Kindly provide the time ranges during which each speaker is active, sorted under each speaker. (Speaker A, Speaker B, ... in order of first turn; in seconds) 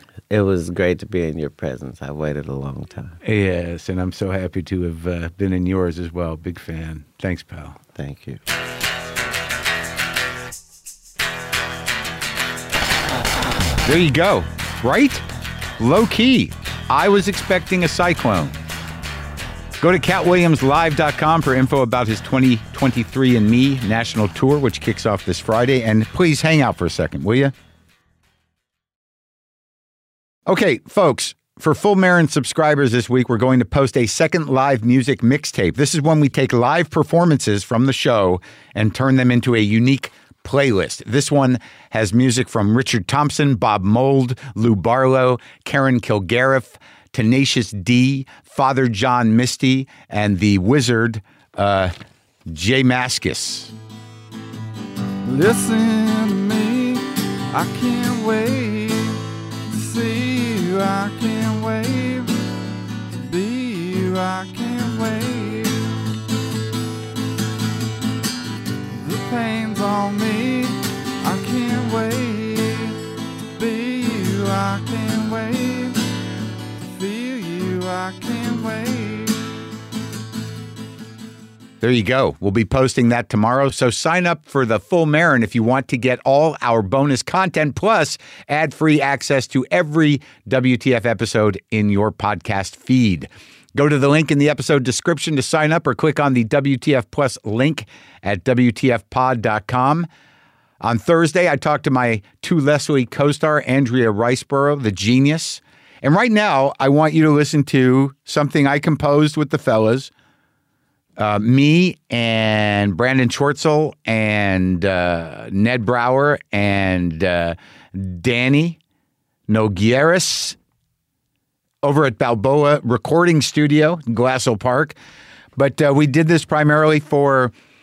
Speaker A: 0.3-3.2, 8.0-8.4
Speaker B: 3.2-7.8, 13.8-15.2, 15.8-18.6, 19.8-27.5, 30.5-51.9, 52.5-53.7, 81.8-100.1, 100.8-110.1, 111.2-118.8, 119.5-120.6, 121.8-125.0, 125.6-127.5
Speaker C: 55.2-62.5, 63.1-66.0, 68.9-76.0, 76.8-79.5